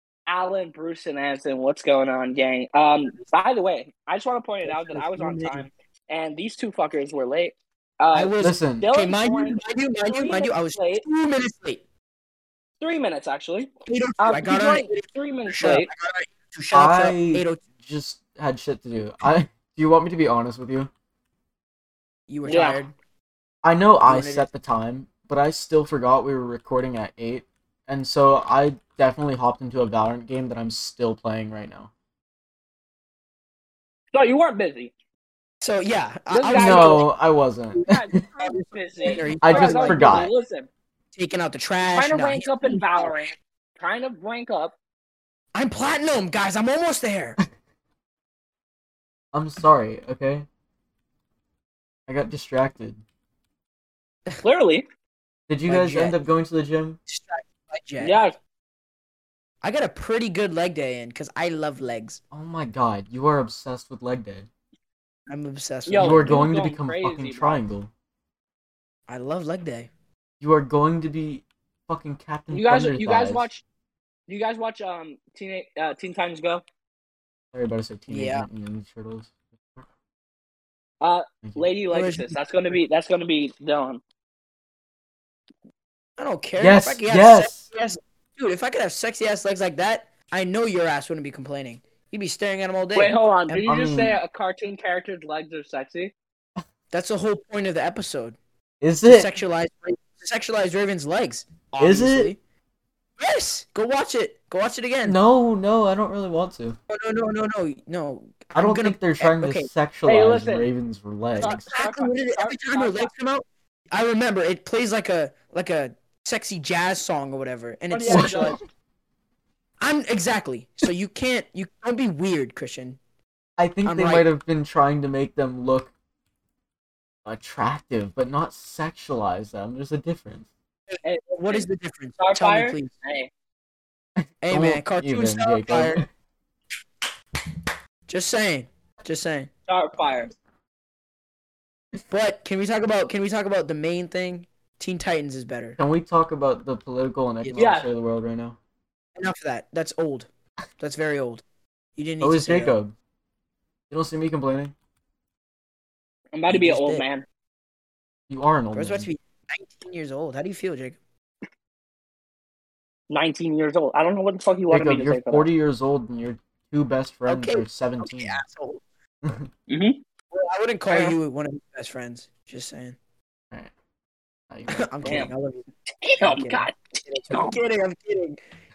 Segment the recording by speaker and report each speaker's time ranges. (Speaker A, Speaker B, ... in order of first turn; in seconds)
Speaker A: 0.3-11.0, 12.8-15.9, 22.4-22.8, 34.1-34.9, 36.3-37.0, 37.8-40.7, 41.8-44.7, 54.4-54.8, 58.0-58.3, 65.8-67.6, 72.5-73.6, 74.3-76.6, 81.0-84.0, 93.0-96.1, 110.0-110.7, 111.4-113.1, 117.9-118.6, 131.0-131.7, 132.2-133.3, 139.7-140.3, 147.6-147.9, 156.3-157.2, 163.1-165.5, 169.7-170.0, 170.9-171.2, 175.1-175.3, 176.0-176.8, 177.3-177.6
Speaker B: 4.6-5.7, 8.1-11.8, 13.9-17.6, 22.3-22.9, 24.0-24.5, 35.6-37.0, 38.4-40.3, 41.2-43.1, 45.5-47.4, 55.7-56.2, 57.1-58.2, 59.6-62.2, 65.3-66.4, 69.1-69.9, 78.1-78.5, 81.9-82.4, 86.2-93.7, 96.9-98.4, 99.0-102.4, 103.2-105.2, 106.9-109.7, 111.4-118.6, 119.8-123.0, 123.8-124.3, 130.9-132.9, 134.4-136.0, 138.1-139.5, 142.1-145.8, 147.4-147.7, 149.2-151.4, 152.0-152.8, 156.5-157.1, 158.8-161.0, 167.3-168.8, 170.3-173.0, 174.7-175.7, 176.2-178.4
Speaker C: 8.4-8.9, 16.7-20.9, 23.6-31.9, 36.5-38.2, 39.4-40.3, 49.3-50.5, 52.1-53.0, 55.5-57.0, 62.3-64.5, 66.0-67.9, 70.4-73.5, 77.5-79.8, 86.6-87.7, 93.7-94.2, 98.8-99.3, 101.8-102.3, 105.0-106.8, 108.5-111.7, 118.1-118.6, 123.6-125.9, 127.2-130.5, 134.5-136.1, 145.8-148.6, 152.2-152.9, 153.9-154.7, 158.3-159.1, 164.7-168.4, 169.2-169.5, 174.5-175.3